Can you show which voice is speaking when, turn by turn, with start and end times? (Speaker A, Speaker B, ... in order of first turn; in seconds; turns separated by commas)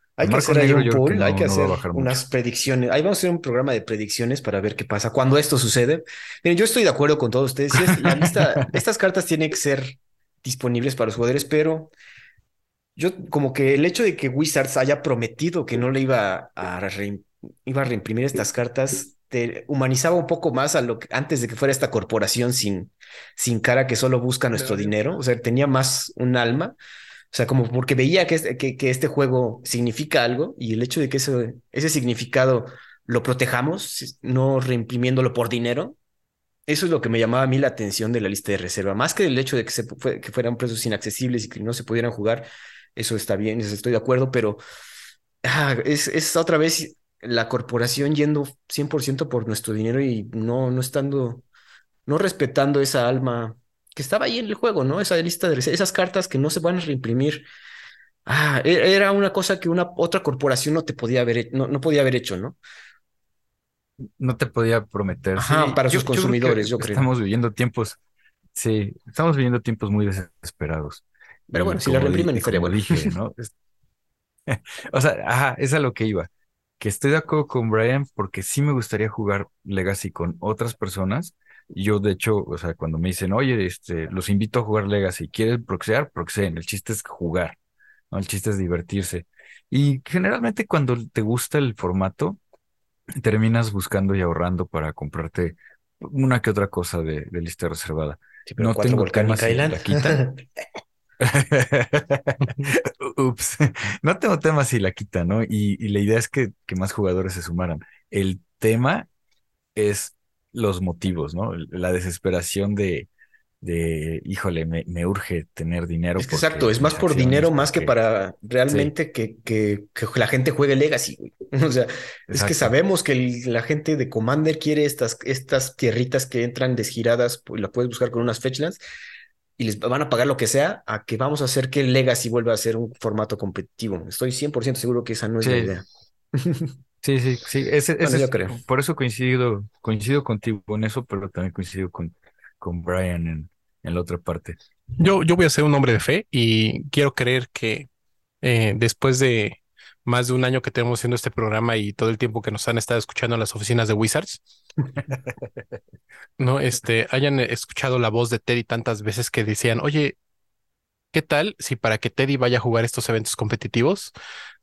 Speaker A: 0.2-11.9, Speaker B: 0.2-2.2, Speaker B: 7.8-8.7, Speaker A: 12.9-26.8, Speaker C: 24.5-25.0, Speaker A: 27.3-36.0, Speaker A: 36.7-44.6, Speaker A: 45.4-51.4, Speaker A: 52.0-57.5, Speaker A: 58.2-62.6, Speaker B: 64.2-68.0, Speaker A: 65.3-67.1, Speaker B: 68.5-73.5, Speaker A: 71.5-73.1, Speaker B: 74.5-87.6, Speaker B: 88.1-92.4, Speaker B: 93.2-100.2, Speaker A: 98.5-100.4, Speaker B: 101.2-109.1, Speaker B: 109.8-113.1, Speaker B: 113.6-117.9, Speaker A: 116.2-128.8, Speaker B: 122.3-122.7, Speaker A: 129.6-136.7, Speaker B: 135.4-135.7, Speaker B: 137.0-144.6, Speaker A: 138.0-138.6, Speaker C: 145.0-147.9, Speaker C: 148.4-154.4, Speaker B: 155.0-155.8, Speaker C: 156.4-160.2, Speaker C: 161.1-164.1